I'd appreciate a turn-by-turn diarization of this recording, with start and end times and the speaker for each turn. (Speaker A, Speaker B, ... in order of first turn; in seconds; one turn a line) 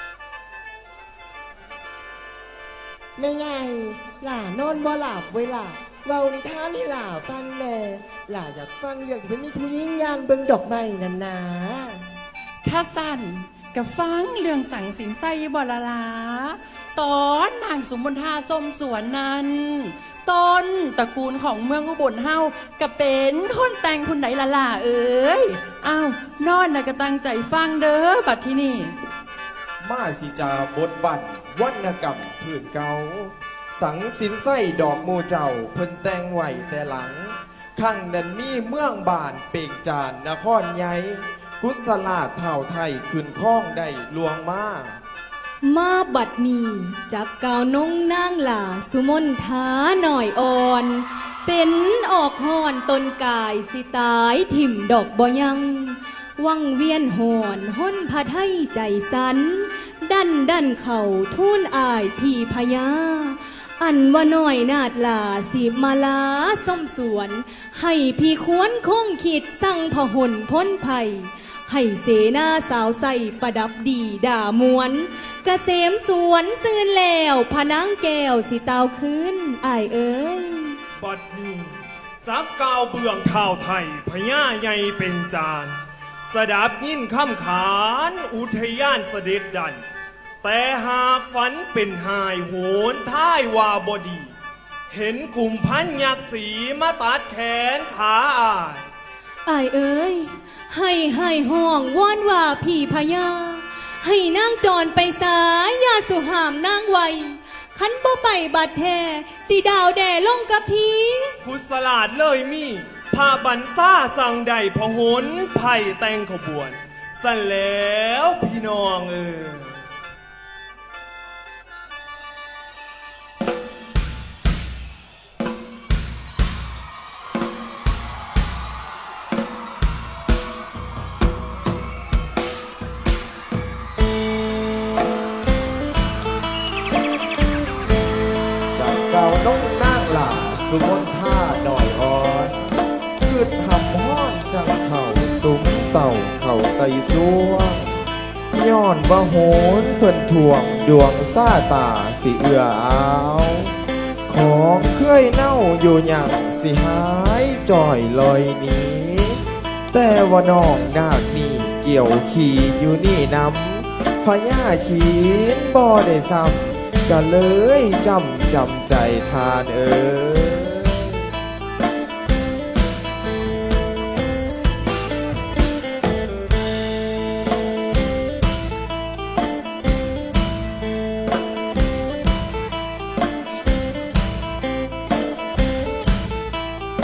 Speaker A: 3.2-12.0
Speaker B: 12.6-28.9
Speaker C: 29.8-45.0
Speaker D: 45.6-80.8
Speaker E: 81.0-81.7
Speaker E: 82.2-89.8
Speaker E: 90.4-94.3
Speaker E: 94.9-98.9
Speaker D: 99.4-111.3
Speaker E: 111.4-119.8
Speaker C: 138.7-142.6
Speaker C: 143.2-153.7
Speaker C: 154.3-171.3